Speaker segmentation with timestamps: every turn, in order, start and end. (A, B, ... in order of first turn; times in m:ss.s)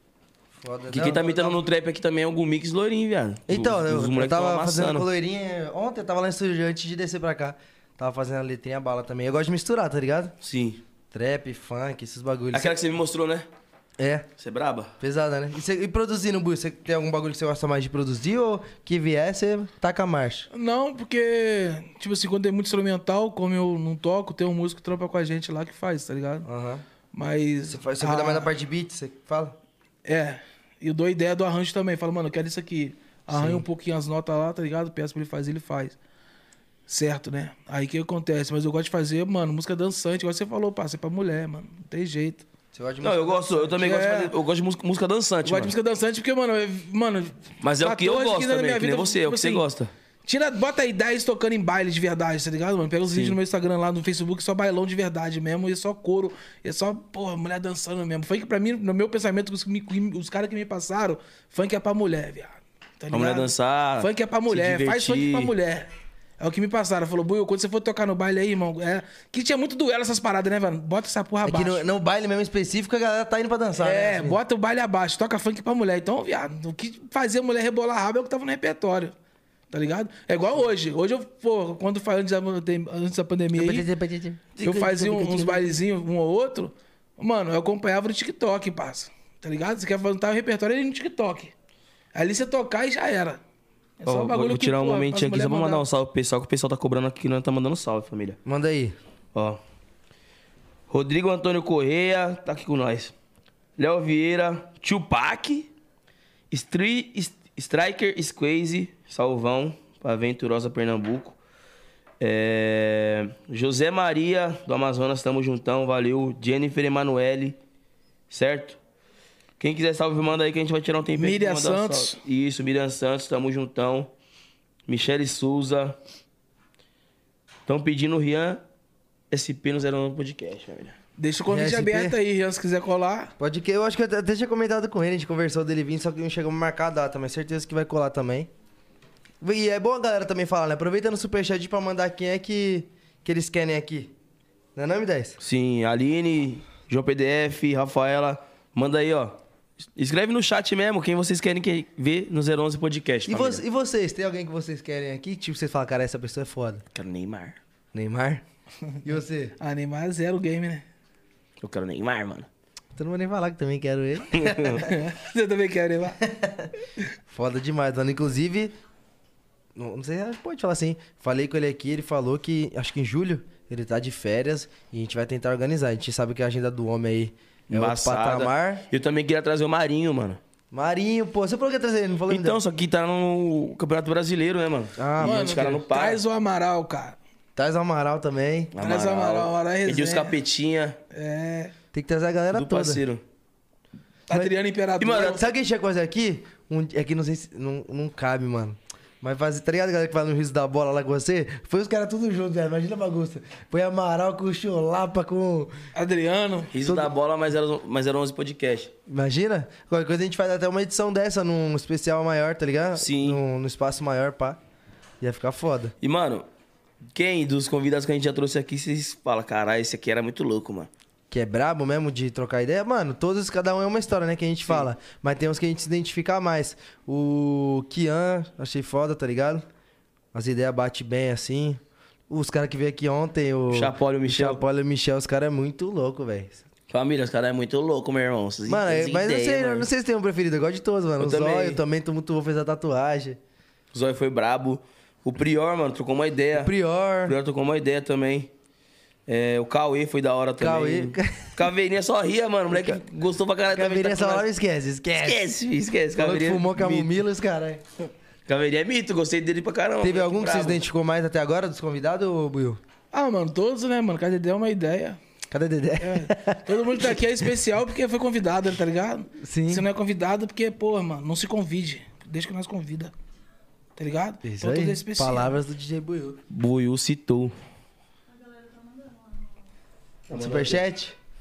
0:00.6-0:01.6 A
0:00.9-0:05.0 B
0:03.5-0:10.3 A
0:10.4-0:10.8 B
0:11.1-0:12.7 A
0:12.5-0:13.4 B
0:14.0-0:14.3 A
0:14.4-0:14.9 B
0:15.0-0:20.5 A
0:20.5-0:26.4 C
0:26.4-0:26.8 A
0:27.1-0:28.5 C
0:27.7-0:29.6 A
0:30.0-0:36.0 C
0:33.3-0:33.6 A
0:36.9-0:42.4 C
0:42.7-0:43.8 A
0:43.0-0:45.7 B
0:43.8-0:44.3 C
0:45.4-0:49.6 C
0:47.6-0:49.9 B
0:50.2-1:05.9 C
0:53.1-0:53.4 B
1:03.1-1:05.5 B
1:06.4-1:11.8 C
1:11.4-1:14.4 A
1:13.8-1:19.1 C
1:19.7-1:23.9 C
1:23.5-1:25.7 A
1:24.6-1:25.5 B
1:24.6-1:31.5 C
1:32.1-1:33.4 C
1:34.0-1:35.8 C
1:34.0-1:38.4 B
1:38.4-1:39.0 A
1:39.3-1:39.6 B
1:40.9-1:43.1 B
1:43.8-1:45.7 B
1:46.5-1:51.4 B
1:52.2-1:57.6 B
1:58.3-1:58.8 B
1:59.6-2:04.1 B
2:01.2-2:02.2 C
2:04.9-2:06.0 B
2:07.7-2:08.6 B
2:09.3-2:11.0 B
2:11.2-2:13.3 C
2:11.5-2:12.2 A
2:13.4-2:18.5 A
2:19.4-2:24.1 A
2:24.7-2:25.4 A
2:25.4-2:29.4 B
2:30.0-2:33.6 B
2:33.3-2:36.8 A
2:36.9-2:37.6 B
2:37.9-2:38.4 A
2:39.0-2:39.5 A
2:39.6-2:40.8 C
2:41.6-2:42.5 B
2:42.9-2:44.8 A
2:44.3-2:44.8 B
2:44.8-2:46.2 C
2:46.2-2:46.7 A
2:47.3-2:48.7 A
2:49.7-2:58.8 A
2:57.7-3:00.4 B
3:00.7-3:02.6 A
3:02.3-3:06.2 B
3:05.0-3:05.7 A
3:05.2-3:07.2 C
3:07.6-3:08.7 A
3:08.7-3:11.0 B
3:08.8-3:10.4 C
3:11.1-3:11.7 C
3:11.9-3:13.0 A
3:12.5-3:13.2 B
3:14.3-3:15.4 C
3:15.0-3:15.4 B
3:15.1-3:25.7 A
3:25.9-3:26.7 C
3:26.7-3:28.9 B
3:26.8-3:27.1 A
3:29.1-3:34.6 A
3:33.0-3:33.4 B
3:35.2-3:35.9 A
3:36.0-3:36.4 B
3:37.1-3:40.9 B
3:41.3-3:49.6 A
3:50.3-3:56.6 A
3:53.7-3:54.6 B
3:56.9-3:59.9 B
3:58.7-4:03.4 A
4:01.2-4:01.8 B
4:03.9-4:06.7 B
4:06.6-4:07.4 A
4:07.2-4:08.5 B
4:09.3-4:14.4 B
4:10.6-4:11.6 A
4:13.7-4:15.4 A
4:15.2-4:17.1 B
4:16.2-4:17.8 A
4:18.5-4:20.8 B
4:20.0-4:22.8 A
4:23.1-4:25.2 C
4:25.5-4:27.2 A
4:26.0-4:33.1 C
4:29.4-4:29.9 A
4:34.0-4:35.6 C
4:34.4-4:36.4 A
4:36.5-4:37.5 B
4:40.3-4:40.8 B
4:40.3-4:41.1 A